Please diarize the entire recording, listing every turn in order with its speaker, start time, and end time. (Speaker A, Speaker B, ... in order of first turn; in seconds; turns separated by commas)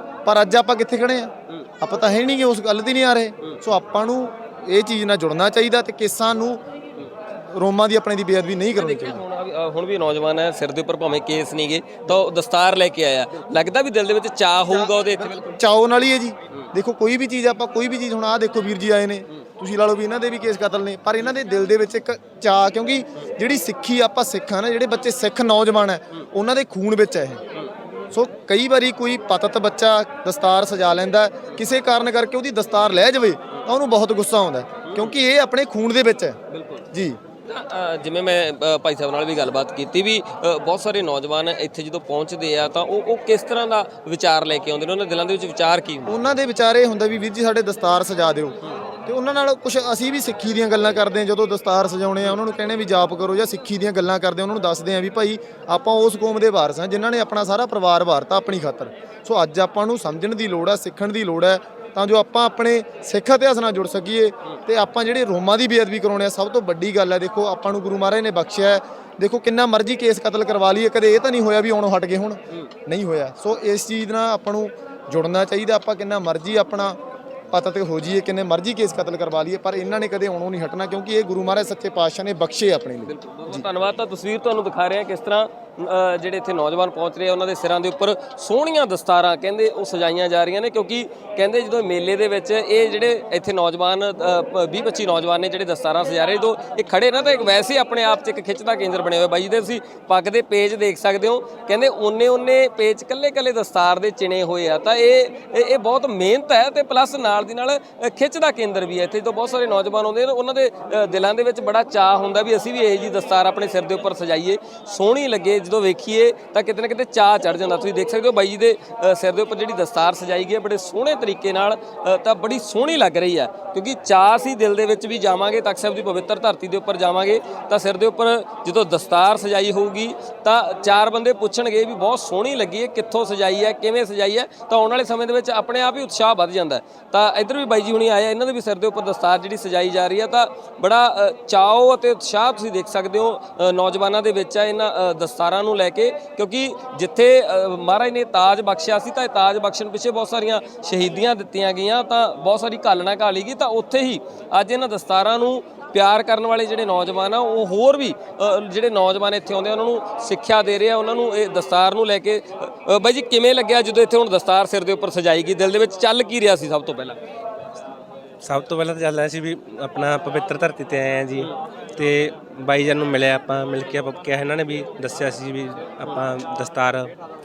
Speaker A: 0.2-6.6, Speaker A: 7.5-9.2, Speaker B: 8.7-15.5, Speaker A: 14.7-27.4, Speaker A: 28.1-36.4, Speaker B: 34.8-35.2, Speaker B: 36.5-36.8, Speaker A: 36.9-37.2, Speaker B: 37.5-46.2, Speaker A: 46.1-77.0, Speaker A: 77.5-83.7, Speaker B: 83.1-167.2, Speaker C: 168.4-177.1